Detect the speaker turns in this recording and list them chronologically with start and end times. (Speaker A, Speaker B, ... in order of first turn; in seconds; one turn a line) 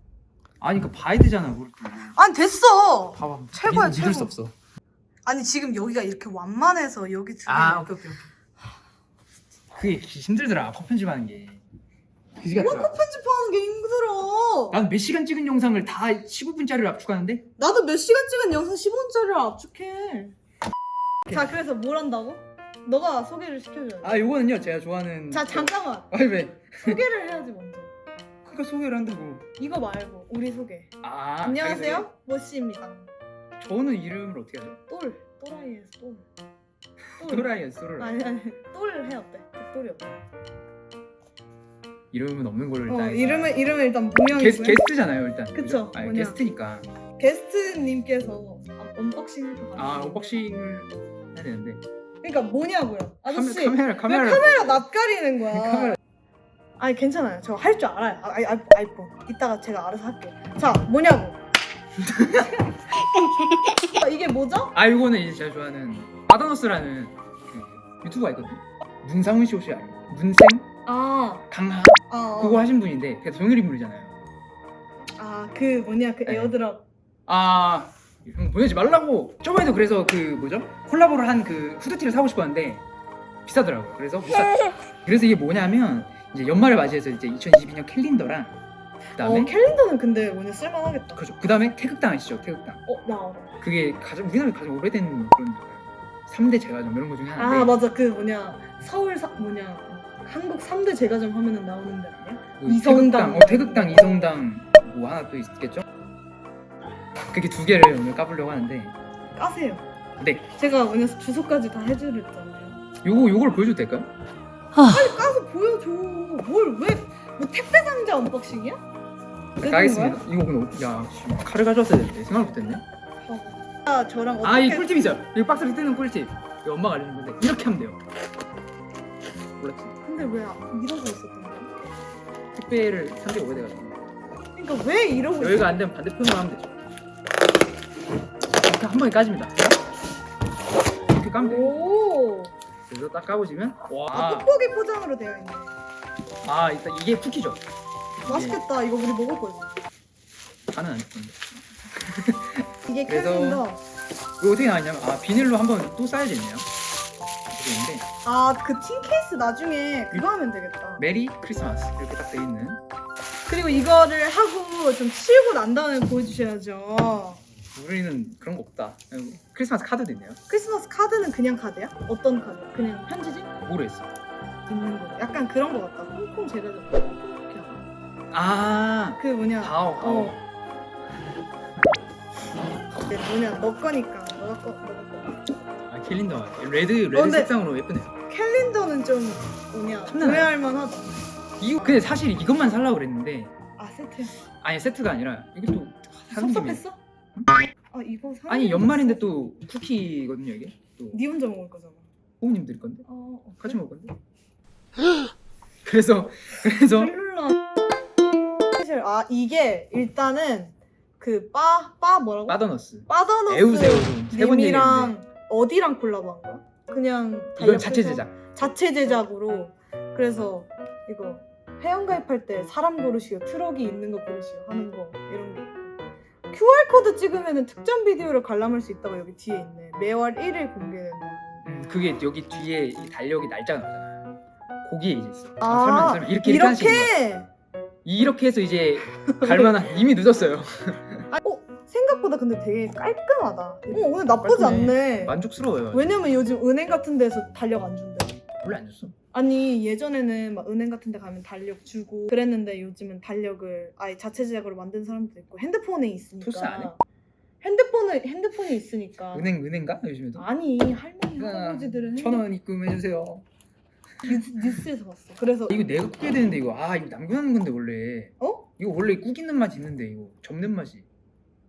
Speaker A: 0.6-2.1
Speaker B: 2.1-4.3
Speaker A: 3.1-4.5
Speaker B: 5.2-8.2
Speaker A: 7.5-8.2
Speaker A: 9.7-11.6
Speaker A: 12.4-12.9
Speaker B: 12.5-14.8
Speaker A: 14.7-17.4
Speaker B: 17.6-20.4
Speaker B: 21.3-24.2
Speaker A: 24.0-27.0
Speaker B: 25.3-26.1
Speaker B: 26.8-27.9
Speaker A: 28.4-29.4
Speaker B: 29.6-30.9
Speaker A: 31.0-32.1
Speaker B: 31.4-33.1
Speaker A: 33.6-34.8
Speaker B: 34.7-36.3
Speaker A: 37.2-38.2
Speaker B: 37.2-40.2
Speaker A: 42.1-43.6
Speaker B: 42.9-44.8
Speaker A: 44.3-46.9
Speaker B: 45.5-46.4
Speaker B: 47.2-50.4
Speaker A: 49.8-51.8
Speaker B: 52.2-56.0
Speaker A: 53.3-54.8
Speaker A: 55.5-56.0
Speaker B: 56.8-61.4
Speaker A: 62.0-62.6
Speaker A: 63.1-63.9
Speaker B: 63.9-64.7
Speaker A: 64.7-70.7
Speaker B: 70.8-71.4
Speaker A: 71.5-74.1
Speaker B: 72.1-72.7
Speaker B: 75.2-76.8
Speaker A: 76.2-76.5
Speaker A: 77.3-82.8
Speaker A: 83.5-88.6
Speaker A: 89.2-89.5
Speaker B: 89.2-91.2
Speaker A: 91.1-92.8
Speaker B: 92.9-93.6
Speaker A: 93.6-97.8
Speaker B: 97.3-104.4
Speaker A: 102.6-105.8
Speaker A: 107.3-108.9
Speaker B: 109.3-109.8
Speaker A: 110.2-110.4
Speaker B: 110.5-112.8
Speaker A: 113.0-114.1
Speaker B: 114.8-118.8
Speaker B: 119.6-120.2
Speaker A: 119.6-122.8
Speaker B: 123.2-124.9
Speaker A: 124.4-128.0
Speaker A: 129.6-129.9
Speaker B: 130.0-131.7
Speaker A: 132.5-134.0
Speaker B: 134.6-135.8
Speaker A: 135.4-136.8
Speaker A: 138.6-139.8
Speaker A: 141.0-141.9
Speaker B: 141.4-142.5
Speaker A: 142.9-144.5
Speaker B: 144.1-145.7
Speaker A: 146.4-147.6
Speaker A: 148.2-148.6
Speaker B: 148.2-149.7
Speaker A: 150.7-153.7
Speaker B: 152.9-153.8
Speaker A: 154.4-156.7
Speaker A: 157.5-158.0
Speaker B: 158.2-161.0
Speaker A: 161.0-162.8
Speaker B: 163.5-167.4
Speaker A: 167.7-170.4
Speaker B: 170.5-173.5
Speaker A: 173.6-174.1
Speaker B: 174.7-177.8
Speaker A: 178.3-180.4
Speaker B: 179.2-180.3
Speaker B: 183.0-185.4
Speaker A: 185.9-188.1
Speaker B: 187.1-187.5
Speaker B: 188.3-191.2
Speaker A: 190.1-190.5
Speaker A: 191.6-193.5
Speaker B: 193.8-194.3
Speaker A: 194.6-196.8
Speaker B: 196.3-197.0
Speaker B: 197.9-199.3
Speaker A: 198.5-201.2
Speaker B: 201.1-202.0
Speaker A: 202.4-203.1
Speaker B: 203.1-203.8
Speaker A: 203.6-204.1
Speaker A: 205.8-207.1
Speaker B: 206.9-207.6
Speaker B: 208.7-225.9
Speaker A: 212.5-215.1
Speaker A: 217.6-218.3
Speaker B: 226.5-231.6
Speaker A: 231.6-234.2
Speaker A: 234.8-237.1
Speaker B: 235.6-237.5
Speaker A: 238.0-241.3
Speaker B: 239.2-239.8
Speaker B: 241.3-245.4
Speaker A: 244.1-246.1
Speaker B: 245.9-248.4
Speaker A: 248.6-249.1
Speaker B: 249.3-257.0
Speaker A: 256.4-256.9
Speaker B: 257.6-259.5
Speaker A: 259.3-260.5
Speaker B: 260.4-262.5
Speaker A: 261.3-263.4
Speaker B: 264.2-265.8
Speaker A: 265.7-271.1
Speaker B: 268.4-268.6